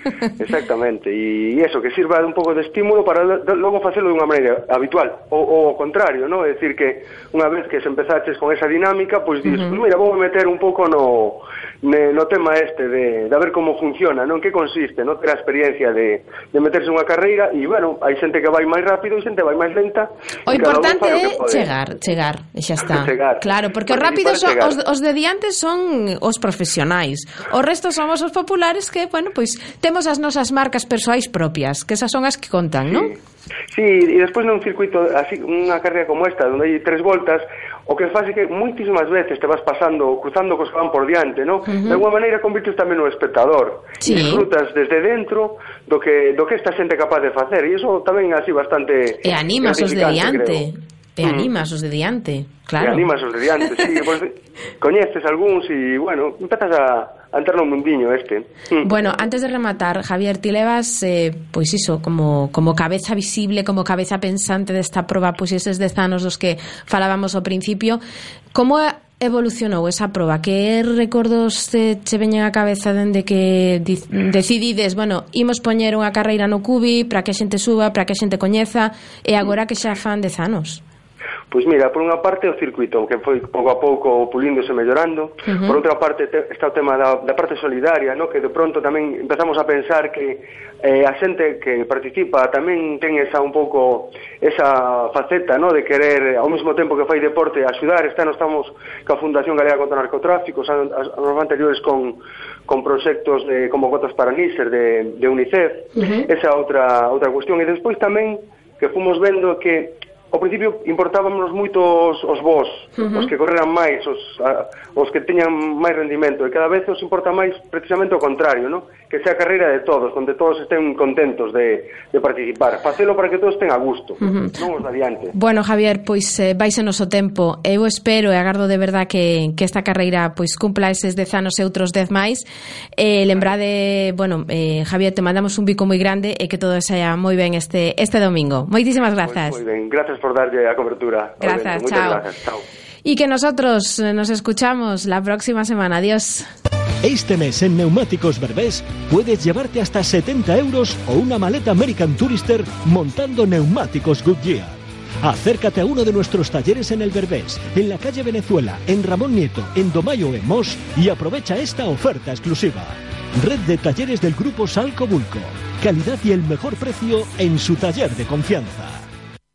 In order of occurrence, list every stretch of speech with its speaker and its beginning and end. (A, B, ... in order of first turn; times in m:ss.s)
0:00.4-0:21.7 A
0:09.4-0:09.8 B
0:20.4-0:33.1 B
0:22.9-0:24.7 A
0:33.7-0:50.6 A
0:41.6-0:42.0 B
0:44.0-0:44.5 B
0:49.2-0:53.1 B
0:52.8-0:58.9 A
0:58.8-1:08.0 B
1:08.5-1:20.8 B
1:21.5-2:05.3 A
1:25.4-1:25.8 B
1:45.9-1:46.2 B
1:52.9-1:53.3 B
2:04.2-2:04.6 B
2:05.3-2:19.6 B
2:19.2-2:22.6 A
2:21.4-2:22.2 B
2:23.0-2:26.5 B
2:27.0-2:49.1 C